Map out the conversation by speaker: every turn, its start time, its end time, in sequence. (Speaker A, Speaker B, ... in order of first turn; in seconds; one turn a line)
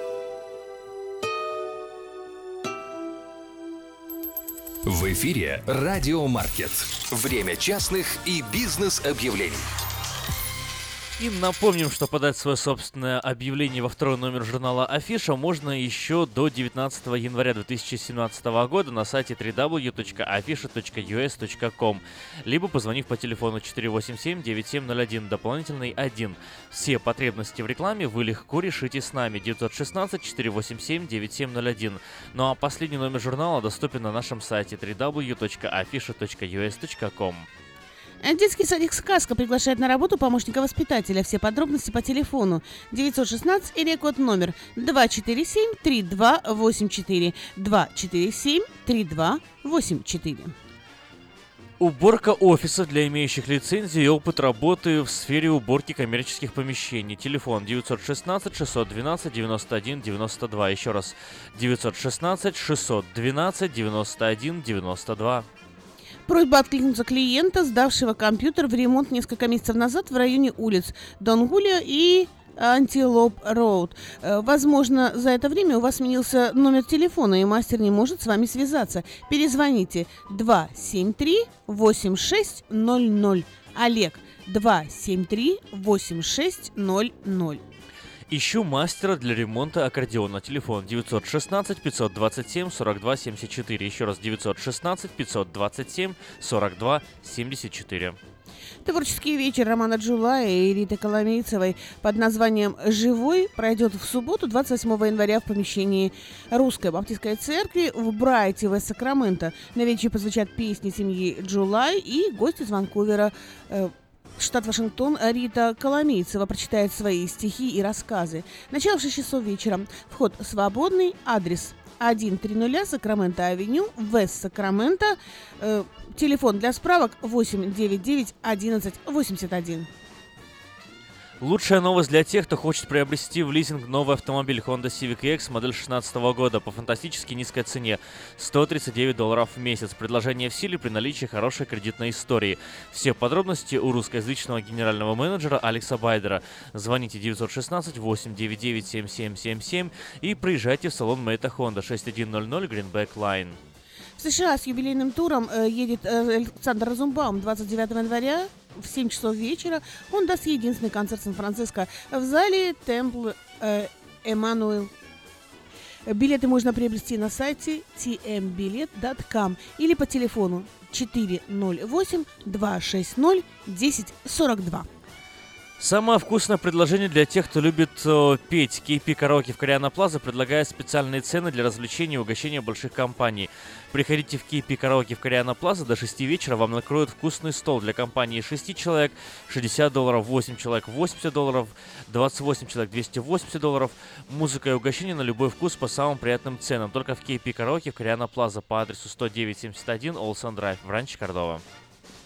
Speaker A: 4.9-9.7
Speaker B: 11.2-37.5
Speaker C: 38.2-50.5
Speaker B: 51.8-65.5
Speaker C: 66.3-87.6
Speaker B: 88.3-98.2
Speaker C: 98.8-129.9
Speaker B: 131.4-153.6
Speaker C: 154.2-164.9
Speaker C: 166.1-174.9
Speaker B: 175.8-201.6